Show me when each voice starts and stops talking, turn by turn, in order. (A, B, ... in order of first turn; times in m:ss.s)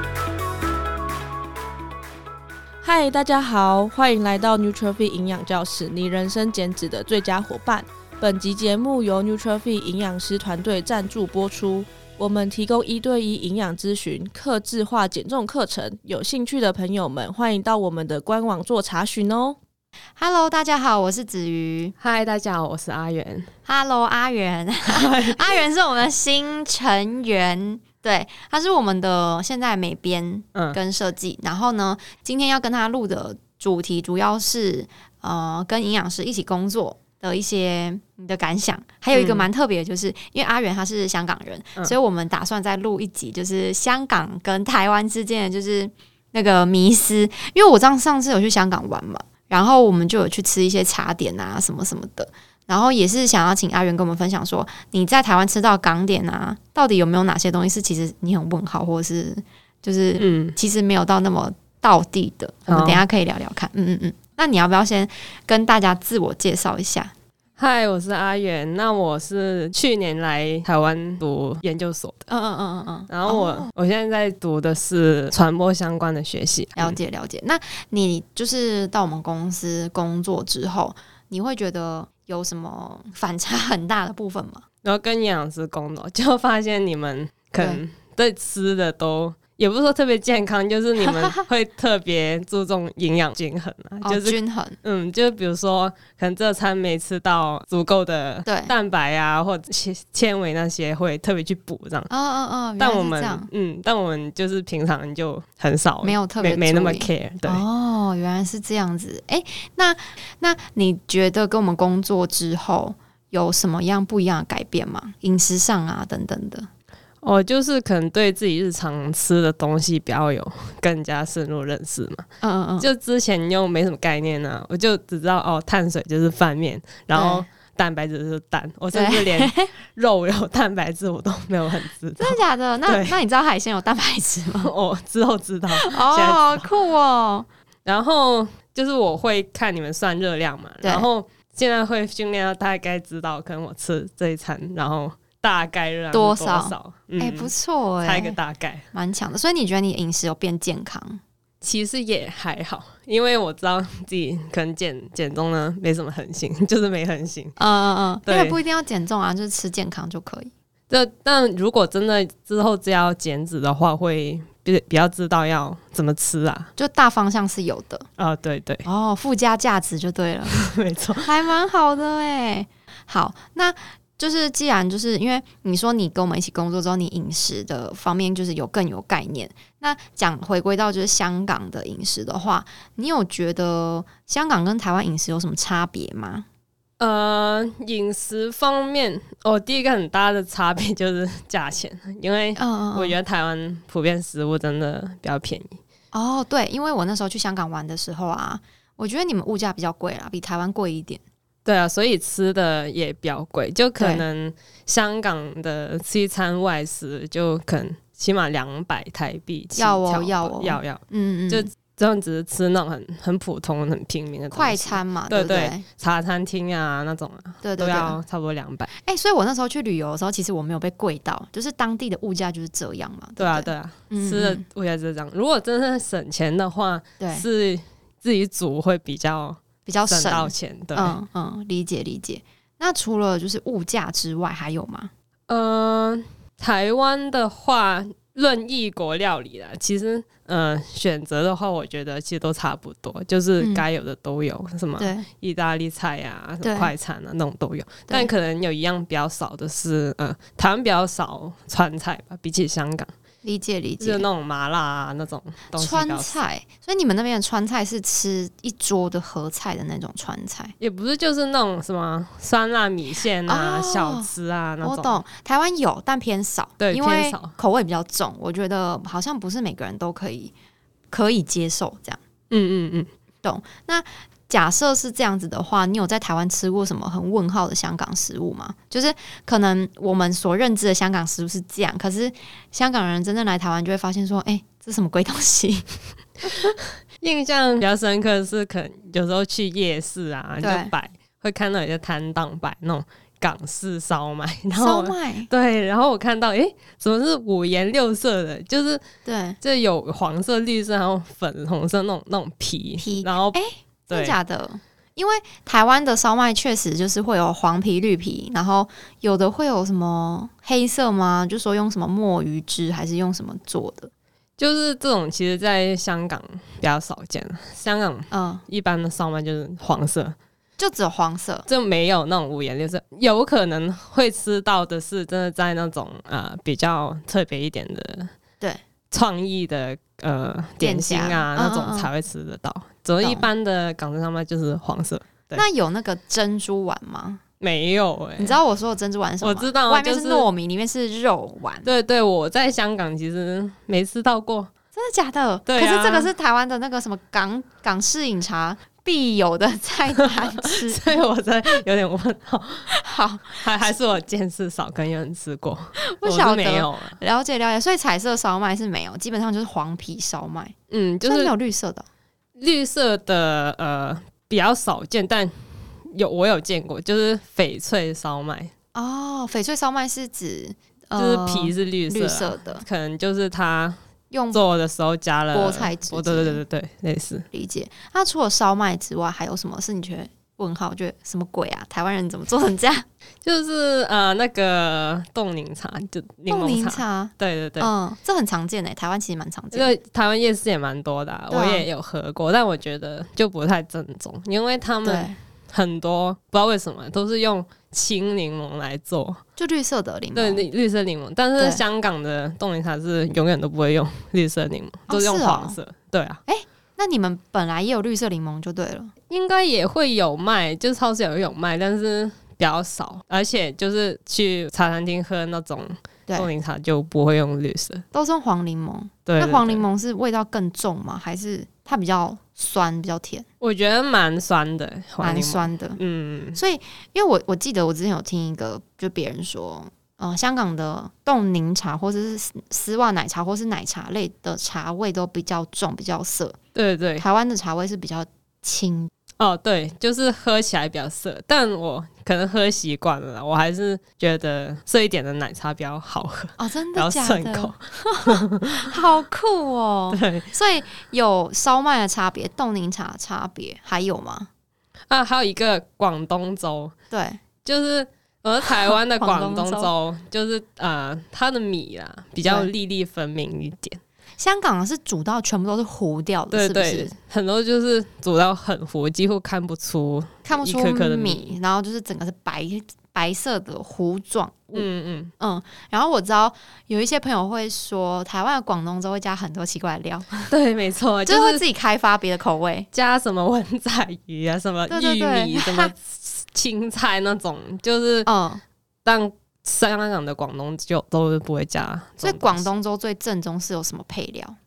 0:02.8-0:19.6 A
0:20.2-0:21.9 B
0:22.0-0:23.5 C
0:23.6-1:07.1 B
0:24.8-0:25.6 C
0:39.1-0:39.5 C
1:00.2-1:00.6 C
1:02.7-1:03.0 C
1:07.6-1:12.3 C
1:12.3-1:13.7 B
1:13.1-1:17.0 C
1:16.8-1:24.6 B
1:24.8-1:42.1 C
1:31.0-1:31.4 B
1:34.0-1:34.8 B
1:38.4-1:38.7 B
1:42.1-1:43.5 B
1:42.8-1:47.6 C
1:46.0-1:56.7 B
1:57.2-2:02.2 C
2:02.4-2:02.9 B
2:02.8-2:13.2 C
2:07.1-2:07.5 B
2:08.9-2:09.7 B
2:12.2-2:14.7 B
2:14.6-2:16.7 C
2:15.7-2:17.5 B
2:17.8-2:28.9 C
2:20.8-2:21.1 B
2:26.1-2:28.4 B
2:28.9-2:31.2 B
2:31.6-2:37.6 C
2:37.6-2:40.5 B
2:38.2-2:38.6 C
2:40.9-2:46.7 C
2:46.8-2:48.1 B
2:48.2-2:48.8 C
2:48.8-3:06.4 B
2:50.4-2:51.3 C
3:07.0-3:15.8 C
3:12.6-3:13.2 B
3:16.1-3:21.2 B
3:21.6-3:38.9 C
3:24.0-3:24.2 B
3:29.8-3:31.7 B
3:34.5-3:35.8 B
3:37.6-3:38.2 B
3:38.9-3:44.6 B
3:43.4-3:51.2 C
3:47.2-3:47.4 B
3:49.8-3:55.1 B
3:55.5-4:13.1 C
4:03.6-4:03.8 B
4:05.0-4:05.3 B
4:06.6-4:06.9 B
4:13.4-4:14.3 B
4:14.0-4:16.4 C
4:15.7-4:20.7 B
4:20.8-4:25.2 C
4:23.5-4:24.3 B
4:24.8-4:30.5 B
4:26.8-4:27.5 C
4:31.1-4:32.2 B
4:32.5-4:33.1 C
4:33.4-4:46.0 B
4:46.5-4:59.0 C
4:50.6-4:50.9 B
4:54.7-4:55.5 B
4:59.2-4:59.6 B
4:59.6-5:03.6 C
5:03.0-5:14.1 B
5:04.1-5:04.4 C
5:14.6-5:20.4 C
5:18.3-5:18.6 B
5:20.8-5:21.6 B
5:21.7-5:28.3 C
5:29.1-5:35.6 C
5:30.8-5:32.1 B
5:33.2-5:33.5 B
5:35.5-5:37.4 B
5:37.6-5:38.6 C
5:38.4-5:41.9 B
5:39.4-5:40.5 C
5:41.8-5:44.7 C
5:44.9-5:51.2 B
5:45.6-5:46.3 C
5:50.6-5:52.9 C
5:52.9-5:53.9 B
5:53.5-5:57.2 C
5:56.0-6:02.1 B
6:00.9-6:01.5 C
6:02.6-6:08.7 C
6:08.9-6:12.8 B
6:11.2-6:14.0 C
6:14.3-6:14.6 B
6:14.5-6:17.5 C
6:15.5-6:16.6 B
6:17.5-6:23.0 B
6:23.4-6:27.9 C
6:26.5-6:29.9 B
6:29.7-6:39.4 C
6:31.5-6:31.9 B
6:35.0-6:35.4 B
6:39.6-6:40.6 B
6:40.3-6:46.4 C
6:41.6-6:41.8 B
6:45.1-6:45.8 B
6:46.5-6:49.1 B
6:49.3-6:58.0 C
6:58.1-7:03.4 B
6:59.2-6:59.8 C
7:03.6-7:06.6 C
7:05.2-7:06.0 B
7:06.5-7:16.6 B
7:16.7-7:17.2 C
7:17.2-7:19.1 B
7:19.4-7:28.8 C
7:26.6-7:34.5 B
7:30.1-7:30.5 C
7:35.1-7:36.9 C
7:37.1-7:37.4 B
7:37.6-7:44.0 C
7:38.8-7:39.9 B
7:42.4-7:42.7 B
7:44.4-7:47.1 B
7:46.5-7:51.5 C
7:50.5-7:54.9 B
7:54.7-7:55.3 C
7:55.4-8:00.5 B
8:00.5-8:01.6 C
8:01.2-8:02.9 B
8:02.9-8:08.3 C
8:04.9-8:05.9 B
8:08.2-8:08.6 B
8:09.0-8:12.7 C
8:12.2-8:14.6 B